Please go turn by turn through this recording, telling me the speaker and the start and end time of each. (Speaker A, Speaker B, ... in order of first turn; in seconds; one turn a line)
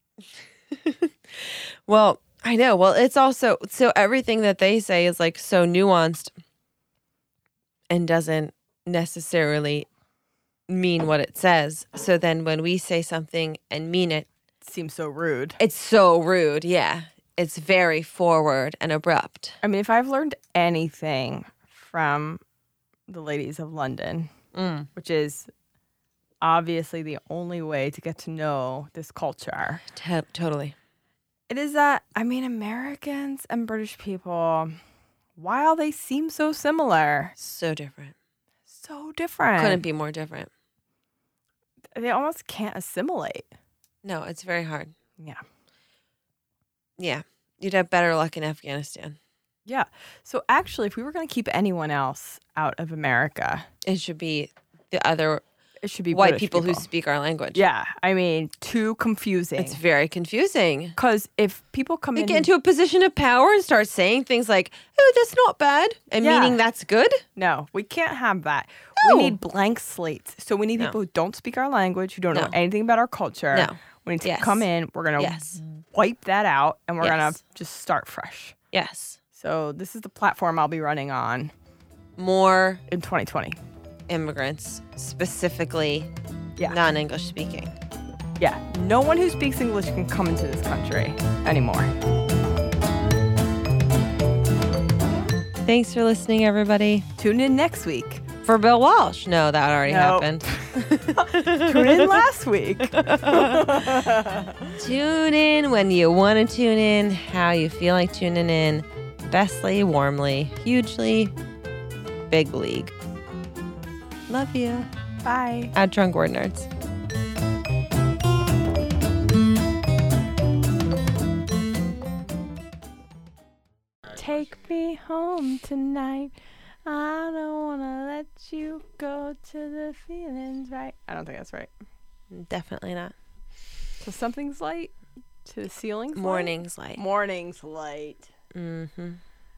Speaker A: 0.7-6.3
Speaker A: 7.9-9.9
Speaker A: 10.7-14.3
Speaker B: 14.6-15.6
Speaker A: 15.6-19.6
Speaker B: 19.6-22.4
Speaker B: 23.1-24.3
Speaker A: 24.5-24.9
Speaker B: 24.9-25.5
Speaker B: 26.4-29.8
Speaker A: 29.9-30.7
Speaker B: 31.5-34.8
Speaker B: 35.4-37.3
Speaker A: 37.4-38.1
Speaker B: 38.7-39.8
Speaker A: 39.6-40.5
Speaker B: 41.9-43.5
Speaker A: 44.0-44.9
Speaker A: 47.0-49.2
Speaker B: 49.7-53.6
Speaker A: 53.8-55.4
Speaker B: 55.8-56.8
Speaker A: 56.1-57.6
Speaker B: 57.5-59.8
Speaker A: 59.6-61.0
Speaker B: 61.0-62.5
Speaker A: 62.1-67.2
Speaker B: 66.2-66.6
Speaker B: 67.3-78.5
Speaker A: 69.0-69.4
Speaker A: 73.5-74.7
Speaker A: 75.2-75.6
Speaker A: 77.0-77.4
Speaker A: 78.7-79.2
Speaker B: 79.3-81.5
Speaker A: 82.2-82.8
Speaker B: 82.9-83.6
Speaker A: 84.1-86.1
Speaker A: 86.7-87.7
Speaker B: 88.4-91.9
Speaker A: 95.6-97.0
Speaker B: 97.2-98.2
Speaker A: 98.4-102.2
Speaker B: 99.8-100.4
Speaker B: 101.1-104.7
Speaker A: 102.9-103.8
Speaker A: 104.8-111.3
Speaker A: 112.3-112.9
Speaker A: 114.3-114.9
Speaker B: 115.2-115.7
Speaker A: 115.7-116.7
Speaker B: 124.1-126.3
Speaker B: 126.8-131.7
Speaker A: 132.3-133.1
Speaker B: 134.0-134.9
Speaker B: 135.4-138.3
Speaker A: 136.1-137.0
Speaker A: 138.5-139.2